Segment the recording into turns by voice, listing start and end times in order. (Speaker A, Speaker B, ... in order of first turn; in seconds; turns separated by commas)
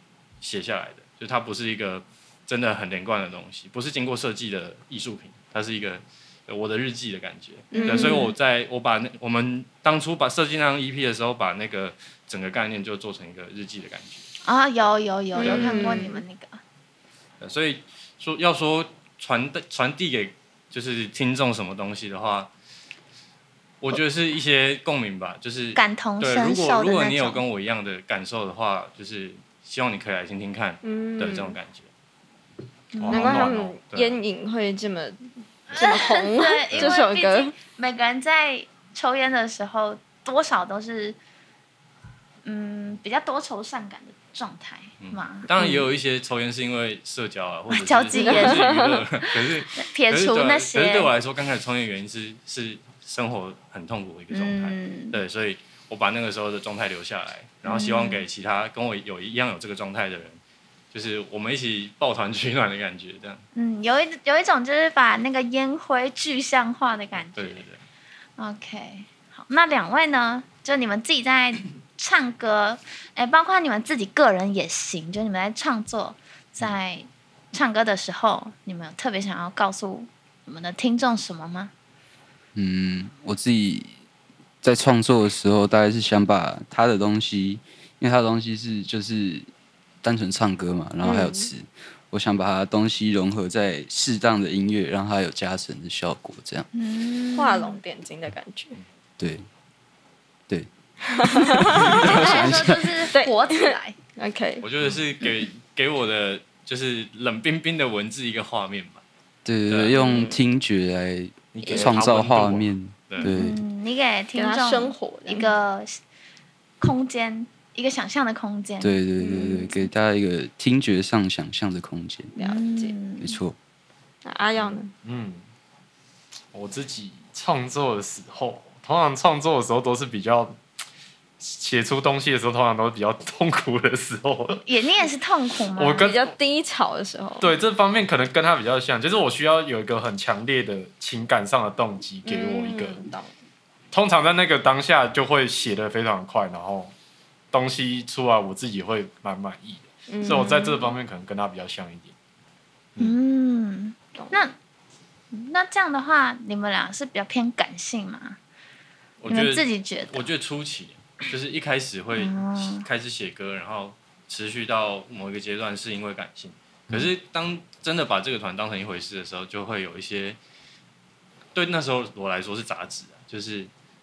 Speaker A: 0.4-14.3, Speaker B: 7.7-8.3, Speaker C: 7.7-8.2, Speaker C: 14.4-16.6, Speaker B: 15.3-16.2, Speaker A: 15.4-15.7, Speaker A: 17.4-22.5, Speaker A: 23.8-31.9, Speaker C: 25.7-27.4, Speaker B: 30.8-31.6, Speaker C: 32.9-33.2, Speaker D: 33.0-33.5, Speaker B: 33.1-37.5, Speaker A: 33.1-34.2, Speaker C: 35.7-41.2, Speaker C: 42.4-45.5, Speaker A: 45.0-60.4, Speaker C: 47.7-48.7, Speaker B: 48.1-49.0, Speaker C: 49.7-51.1, Speaker C: 54.3-55.2, Speaker C: 57.6-58.2, Speaker A: 60.9-63.4, Speaker C: 63.5-67.6, Speaker A: 67.3-67.8, Speaker C: 68.4-81.7, Speaker E: 82.5-83.9, Speaker E: 84.6-89.5, Speaker E: 90.0-96.7, Speaker B: 91.0-91.5, Speaker C: 96.7-97.8, Speaker B: 97.3-98.8, Speaker E: 99.2-99.4, Speaker B: 101.1-101.9, Speaker E: 101.3-102.9, Speaker C: 101.9-104.0, Speaker B: 103.1-104.7, Speaker A: 104.6-109.0, Speaker E: 109.4-113.6, Speaker A: 109.7-110.0, Speaker B: 110.0-110.4, Speaker D: 111.5-112.7, Speaker A: 113.1-113.3, Speaker C: 113.2-116.0, Speaker B: 114.3-115.5, Speaker C: 116.8-119.9, Speaker E: 118.8-122.3, Speaker B: 119.2-119.7, Speaker B: 122.3-123.0, Speaker C: 122.4-123.4, Speaker E: 123.2-123.5, Speaker B: 124.2-124.9, Speaker D: 124.5-125.4, Speaker D: 126.5-130.6, Speaker D: 131.4-134.6, Speaker C: 134.6-136.1, Speaker D: 135.7-136.3, Speaker B: 136.0-137.5, Speaker D: 137.4-143.1, Speaker B: 142.2-143.3, Speaker D: 143.9-146.9, Speaker D: 147.5-152.1, Speaker B: 150.1-150.7, Speaker C: 150.2-150.9, Speaker C: 153.0-154.5, Speaker C: 155.3-158.4, Speaker A: 159.2-170.4, Speaker C: 159.3-160.3, Speaker C: 162.1-162.8, Speaker A: 171.5-173.7